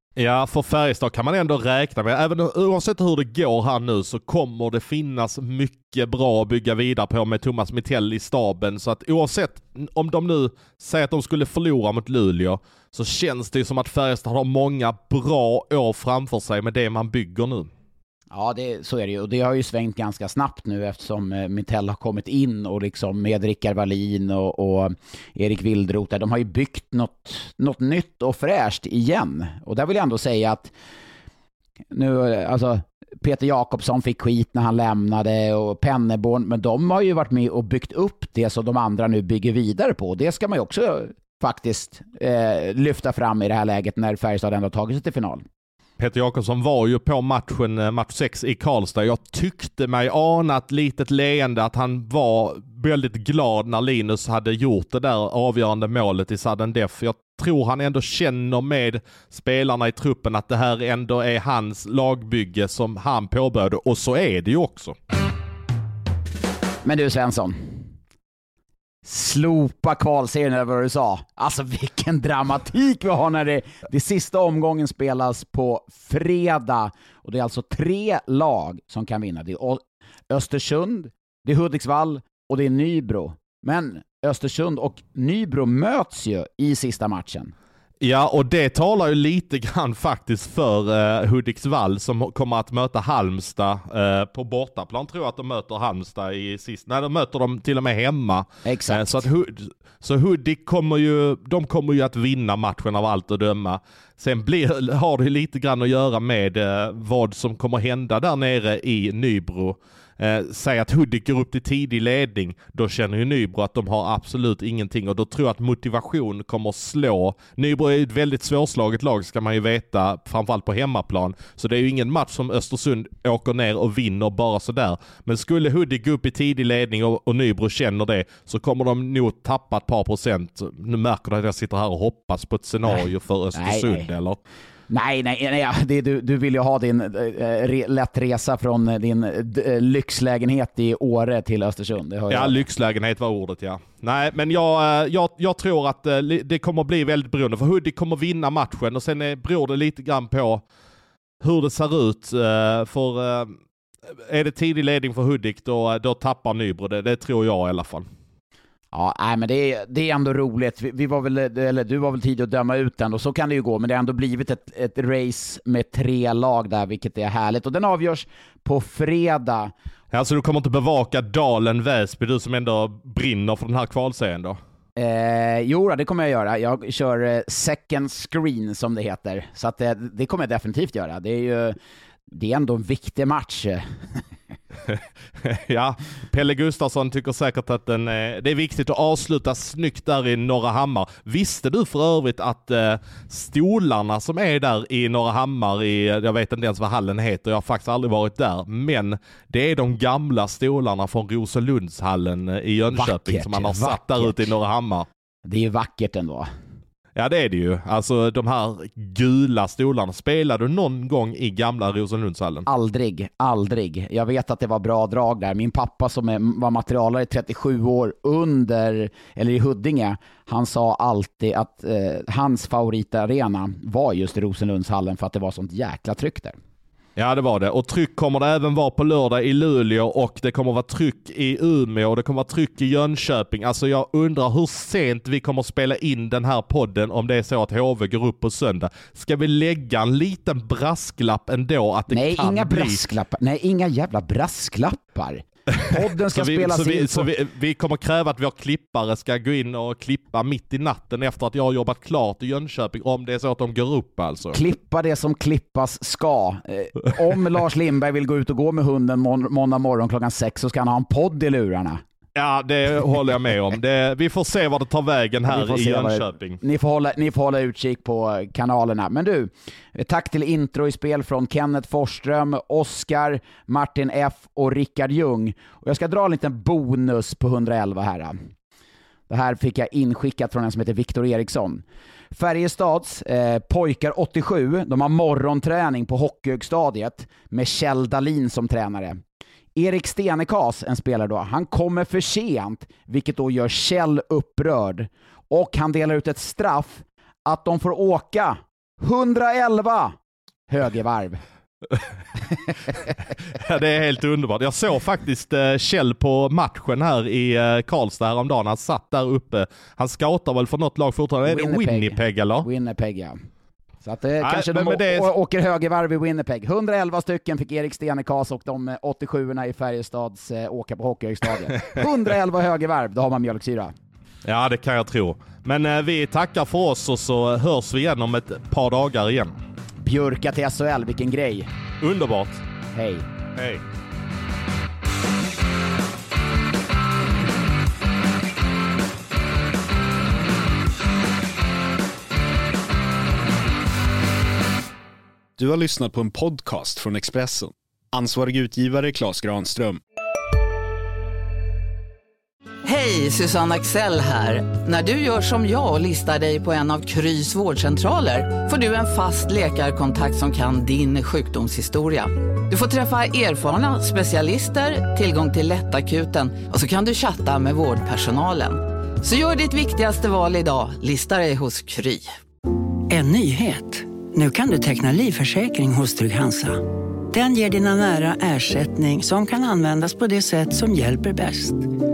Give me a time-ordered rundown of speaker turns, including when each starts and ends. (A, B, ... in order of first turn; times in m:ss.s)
0:00.2-0:17.7 A
0:18.3-0:30.7 B
0:31.9-0:45.4 B
0:46.0-1:05.0 A
1:06.8-1:07.8 B
1:09.0-1:27.5 B
1:28.0-2:14.4 A
1:38.6-1:39.2 B
2:13.5-2:14.1 B
2:14.9-2:22.6 B
2:22.3-2:30.6 A
2:31.4-2:33.6 A
2:34.1-2:38.1 A
2:38.9-2:49.7 B
2:50.1-2:54.6 A
2:55.0-3:01.8 B
3:02.3-3:04.2 B
3:04.9-3:25.1 A
3:22.9-3:24.4 B
3:25.4-3:26.5 B
3:27.1-3:32.6 A
3:32.6-3:46.6 B
3:47.2-4:03.0 A
4:02.1-4:07.3 B
4:05.7-4:14.6 A
4:14.5-4:22.0 B
4:22.3-4:26.6 A
4:25.5-4:38.3 B
4:39.3-4:49.2 B
4:49.8-5:00.1 B
5:00.7-5:01.4 B
5:03.5-5:12.7 A
5:11.4-5:13.4 B
5:14.0-5:23.9 B
5:14.4-5:15.3 A
5:24.4-5:29.6 A
5:30.0-5:31.7 B
5:32.0-5:32.6 A
5:32.9-5:33.2 B
5:33.5-5:33.8 A
5:45.6-5:50.0 C
5:52.8-6:12.4 D
6:13.1-6:21.9 E